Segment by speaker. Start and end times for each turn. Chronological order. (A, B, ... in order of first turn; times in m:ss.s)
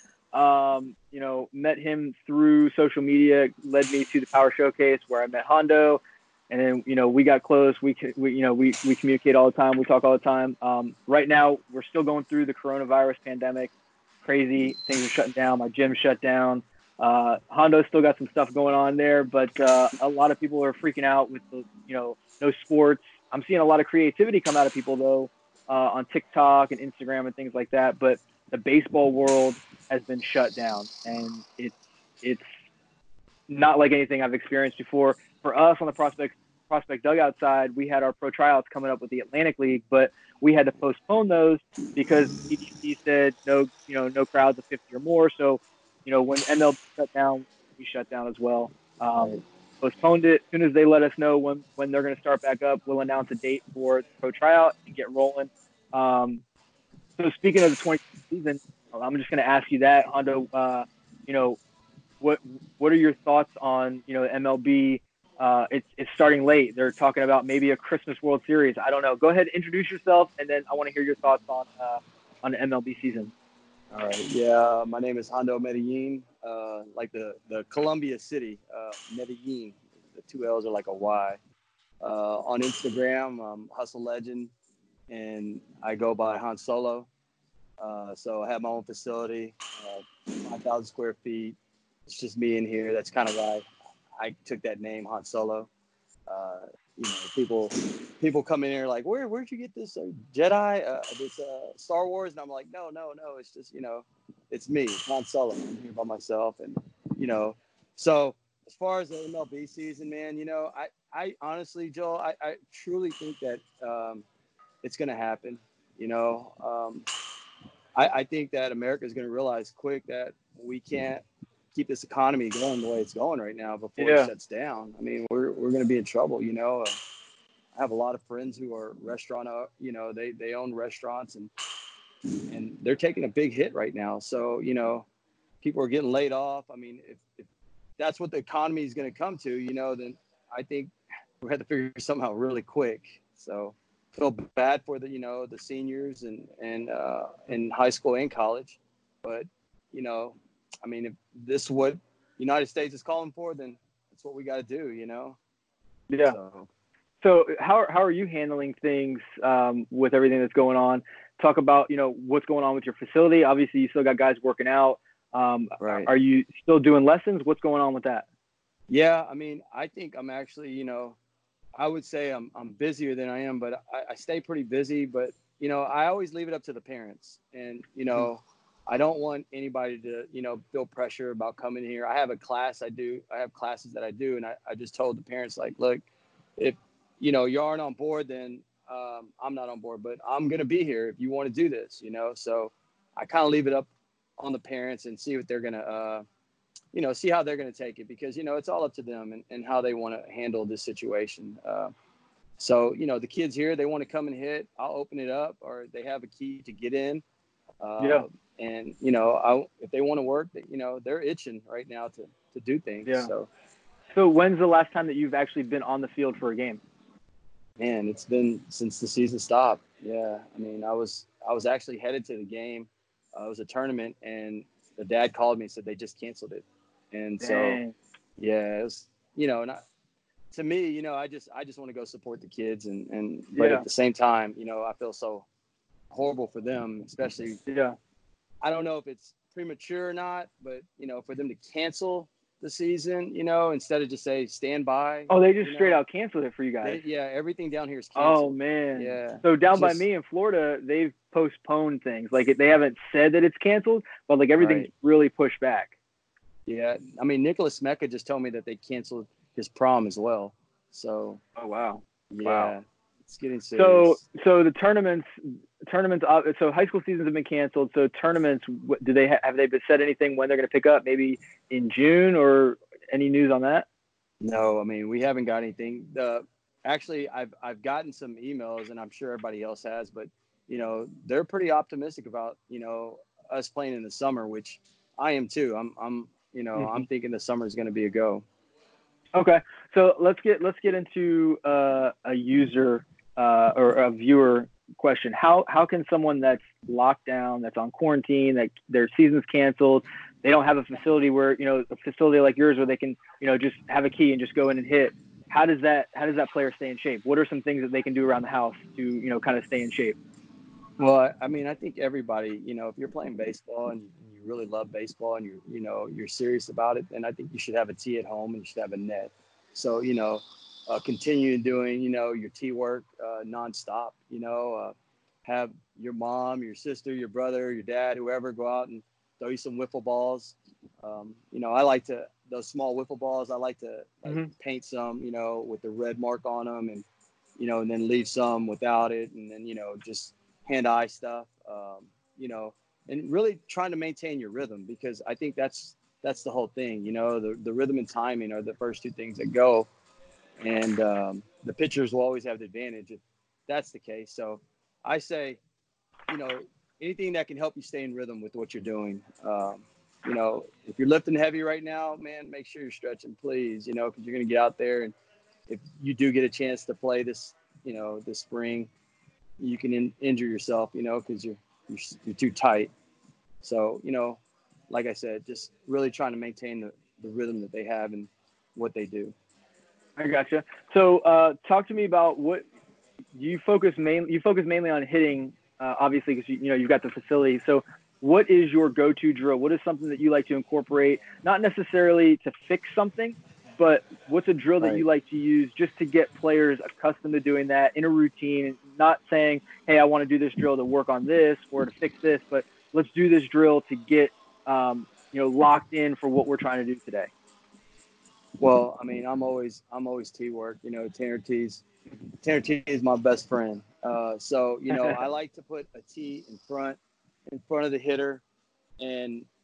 0:00.3-0:13.7 A
0:14.2-0:32.5 A
0:33.5-0:56.4 A
0:57.2-1:01.6 A
1:02.2-1:13.3 A
1:13.9-1:21.4 B
1:22.0-1:24.5 B
1:25.1-1:27.1 B
1:27.8-1:35.7 B
1:36.3-1:54.2 B
1:54.8-1:57.1 B
1:57.9-2:07.0 B
2:04.0-2:04.3 A
2:07.7-2:11.5 B
2:12.5-2:15.1 B
2:15.6-2:35.4 B
2:36.1-2:36.4 A
2:36.2-2:36.7 B
2:37.2-2:48.2 A
2:45.8-2:46.1 B
2:48.9-2:51.2 B
2:51.8-3:06.0 B
3:06.6-3:16.2 B
3:16.9-3:21.9 B
3:22.6-3:27.2 B
3:27.8-3:33.5 B
3:34.1-3:36.8 A
3:37.8-3:47.8 B
3:47.4-3:47.9 A
3:48.4-3:49.8 B
3:50.5-3:55.4 B
3:53.5-3:53.8 A
3:56.1-3:57.6 B
3:57.7-3:57.9 A
3:58.6-4:06.0 B
4:05.3-4:07.0 A
4:06.8-4:10.0 B
4:08.2-4:15.9 A
4:14.6-4:14.9 B
4:16.7-4:21.4 B
4:21.6-4:22.7 A
4:22.3-4:24.2 B
4:23.7-4:33.8 A
4:34.4-4:48.4 B
4:46.8-4:47.0 A
4:49.3-5:10.2 A
5:11.0-5:24.9 B
5:25.4-5:37.0 B
5:37.6-5:49.9 B
5:50.6-5:55.6 B
5:56.3-6:05.1 B
6:05.7-6:08.9 B
6:09.6-6:12.9 B
6:13.6-6:19.3 B
6:20.2-6:22.6 A
6:23.3-6:47.3 A
6:34.8-6:35.0 B
6:48.6-6:51.8 B
6:52.4-6:58.4 B
6:54.9-6:55.2 A
6:59.0-6:59.5 B